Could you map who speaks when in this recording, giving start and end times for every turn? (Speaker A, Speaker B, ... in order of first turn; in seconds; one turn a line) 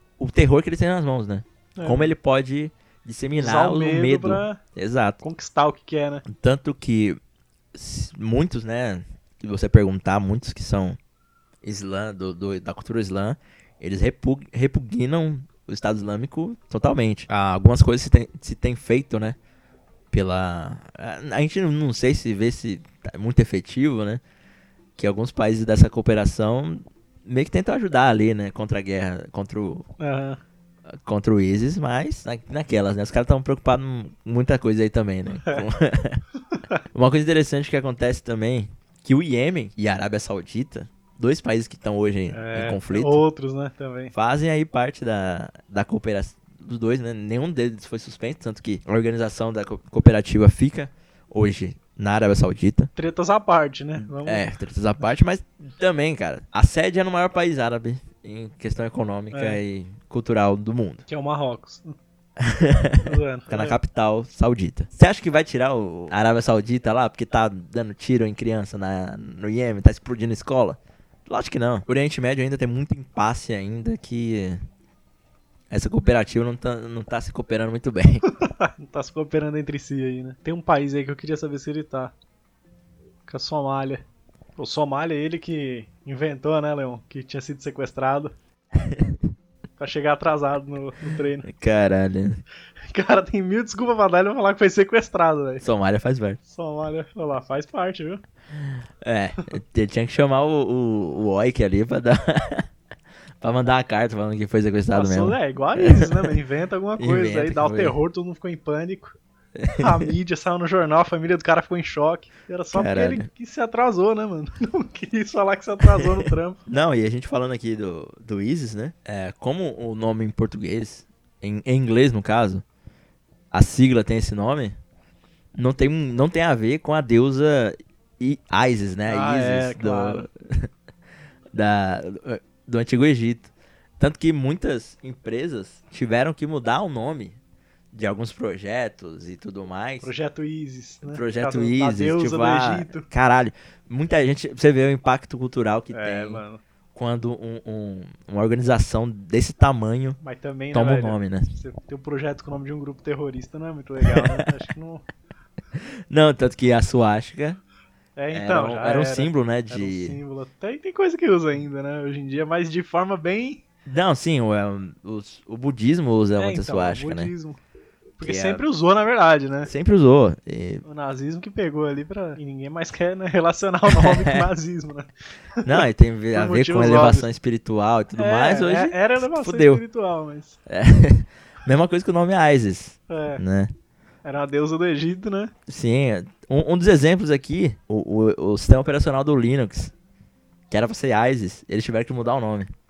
Speaker A: 0.2-5.2
Speaker B: 1.8-2.1
Speaker B: 3.4-4.6
Speaker B: 5.2-6.2
Speaker A: 6.3-7.2
Speaker A: 7.7-11.0
Speaker A: 11.6-19.4
Speaker A: 20.1-24.2
Speaker A: 25.0-29.9
Speaker B: 30.0-30.4
Speaker A: 30.9-36.2
Speaker B: 36.5-36.8
Speaker A: 36.9-43.2
Speaker B: 42.3-44.1
Speaker A: 44.1-52.9
Speaker B: 53.0-54.5
Speaker A: 54.0-61.0
Speaker B: 59.3-59.6
Speaker B: 61.1-61.9
Speaker A: 62.4-74.6
Speaker B: 63.0-63.8
Speaker A: 75.7-78.2
Speaker B: 78.4-82.1
Speaker B: 83.3-84.0
Speaker B: 84.6-88.3
Speaker A: 88.8-89.2
Speaker B: 89.8-91.5
Speaker A: 91.4-92.4
Speaker B: 92.9-95.6
Speaker A: 95.6-96.4
Speaker B: 96.5-98.2
Speaker A: 99.0-102.7
Speaker A: 103.4-106.4
Speaker B: 104.9-109.2
Speaker A: 107.0-108.0
Speaker A: 109.6-110.1
Speaker B: 109.8-116.6
Speaker A: 112.7-113.3
Speaker A: 115.9-122.6
Speaker A: 123.5-124.8
Speaker A: 125.5-130.7
Speaker B: 129.1-130.3
Speaker A: 131.5-137.4
Speaker A: 137.9-140.1
Speaker B: 140.0-143.1
Speaker A: 141.0-146.4
Speaker B: 145.9-146.6
Speaker A: 146.9-150.2
Speaker B: 150.2-155.1
Speaker A: 150.7-151.5
Speaker A: 154.0-154.4
Speaker A: 155.8-157.6
Speaker B: 158.2-163.6
Speaker A: 158.3-160.2
Speaker A: 163.9-167.3
Speaker B: 166.4-167.6
Speaker B: 168.2-169.7
Speaker A: 168.2-168.6
Speaker A: 169.7-170.8
Speaker B: 170.8-177.3
Speaker A: 173.9-174.5
Speaker A: 175.6-179.8
Speaker B: 178.2-180.6
Speaker A: 180.7-183.7
Speaker B: 183.1-183.4
Speaker B: 184.2-185.5
Speaker A: 185.7-189.9
Speaker A: 190.7-192.7